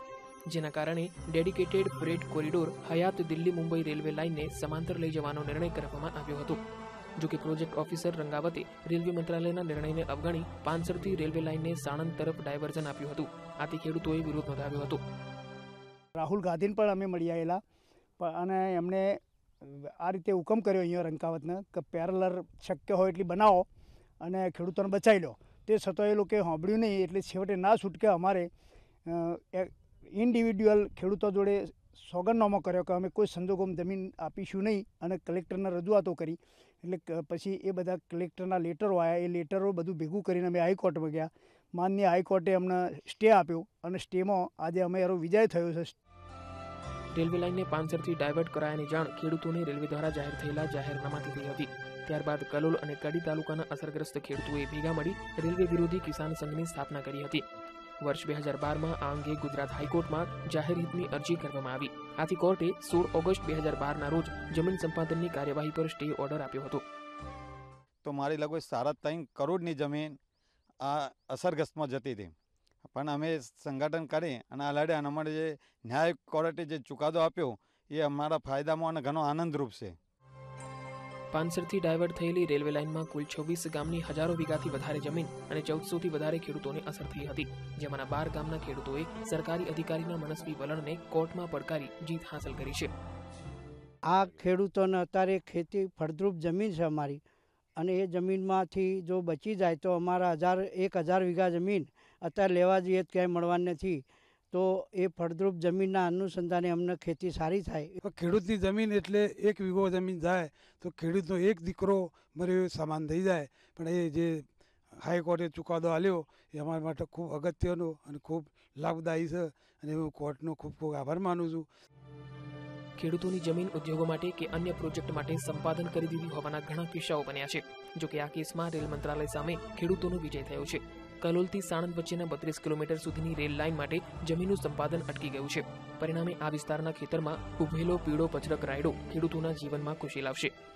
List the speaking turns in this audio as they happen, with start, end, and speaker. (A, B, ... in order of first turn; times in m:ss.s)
0:00.5-0:06.6 A
0:07.2-0:15.0 A
0:16.2-0:17.6 B
0:18.2-0:23.6 B
0:24.2-0:28.5 B
0:29.0-0:46.0 B
0:47.1-0:57.4 A
0:58.0-1:06.8 A
1:08.0-1:10.1 C
1:10.9-1:12.3 C
1:12.8-1:20.0 C
1:21.3-1:32.9 A
1:34.1-1:37.2 D
1:37.8-1:48.0 D
1:48.0-1:54.5 E
1:55.0-2:01.7 E
2:03.0-2:20.5 A